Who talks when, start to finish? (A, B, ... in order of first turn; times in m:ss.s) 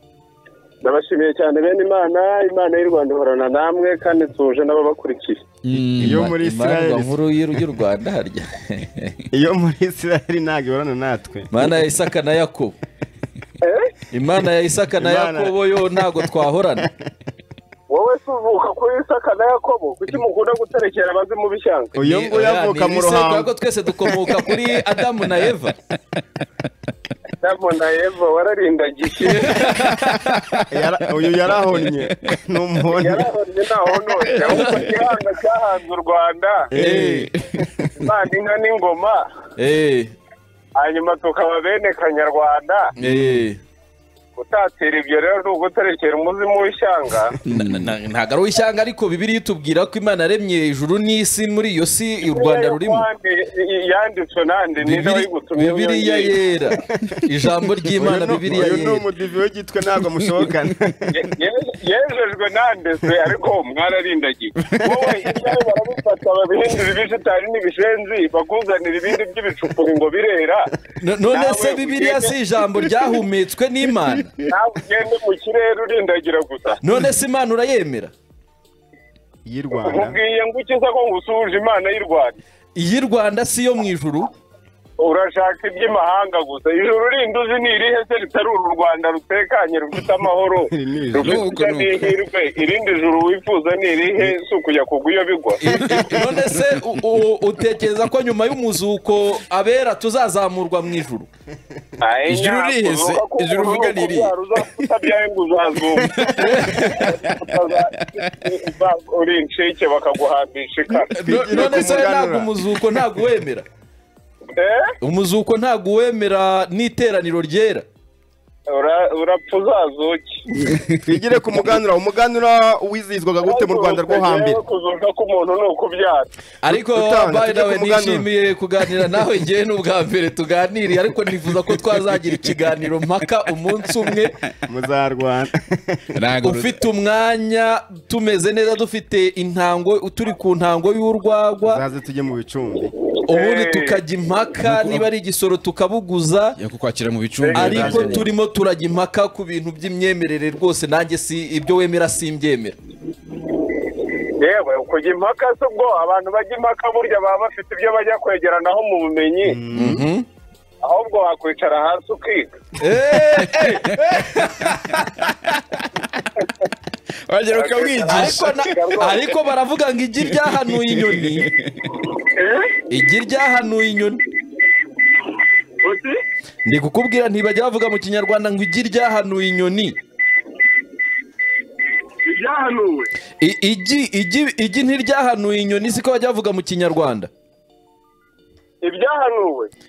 0:00.8-0:05.4 A
0:05.6-0:06.3 B
0:06.0-0:07.2 C
0:06.0-0:09.1 D
0:09.3-0:11.8 C
0:11.5-0:12.8 D
0:13.6-0:13.9 A
0:14.1-0:16.9 D
0:15.0-0:15.8 C
0:17.9-0:21.9 A
0:21.9-0:23.5 C
0:22.0-0:25.7 D
0:24.1-0:24.4 C
0:27.4-0:29.7 A
0:29.2-0:30.6 D
0:30.7-0:33.3 C
0:33.0-0:36.7 A
0:34.4-0:34.8 D
0:36.7-0:37.9 C
0:36.7-0:37.3 D
0:36.8-0:37.7 B
0:38.0-0:39.2 A
0:39.6-0:40.1 D
0:40.8-0:42.9 A
0:43.0-0:43.6 D
0:44.4-0:47.4 A
0:47.4-0:47.9 B
0:47.5-0:53.0 D
0:52.3-0:56.4 A
0:54.8-0:59.0 D
0:56.8-0:57.2 C
0:57.8-1:01.3 C
1:01.1-1:10.7 A
1:04.6-1:05.1 C
1:11.0-1:14.3 D
1:11.3-1:12.3 A
1:14.5-1:16.8 A
1:16.8-1:18.1 D
1:19.4-1:20.2 C
1:19.8-1:22.4 A
1:22.7-1:24.3 D
1:25.0-1:35.7 A
1:30.7-1:31.4 C
1:31.2-1:32.2 B
1:35.6-1:41.3 D
1:35.8-1:36.6 B
1:42.0-1:51.2 A
1:42.2-1:44.8 B
1:46.0-1:48.2 B
1:46.3-1:47.1 D
1:51.1-1:52.5 C
1:51.1-1:53.6 D
1:54.6-1:54.9 A
1:55.0-1:57.8 D
1:58.7-2:00.4 A
2:00.6-2:01.0 B
2:01.0-2:04.6 C
2:03.4-2:06.3 A
2:06.6-2:14.4 D
2:06.7-2:08.3 C
2:14.6-2:16.1 C
2:16.1-2:16.7 B
2:16.4-2:21.8 D
2:21.6-2:22.9 C
2:23.2-2:26.6 D
2:23.3-2:24.0 A
2:24.6-2:25.1 B
2:26.6-2:28.2 B
2:27.4-2:28.2 A
2:27.5-2:32.8 D
2:27.8-2:28.2 C
2:34.4-2:39.6 A
2:39.4-2:40.1 C
2:39.7-2:40.2 D
2:40.8-2:42.6 A
2:42.8-2:45.0 D
2:43.4-2:46.3 B
2:47.3-2:48.7 B
2:47.5-2:49.4 A
2:48.1-2:51.5 D
2:50.4-2:51.9 B
2:52.2-2:52.8 A
2:52.9-2:54.2 D
2:55.8-2:56.2 A
2:56.6-3:00.0 D
3:02.2-3:03.1 A
3:03.4-3:07.3 D
3:08.8-3:09.7 A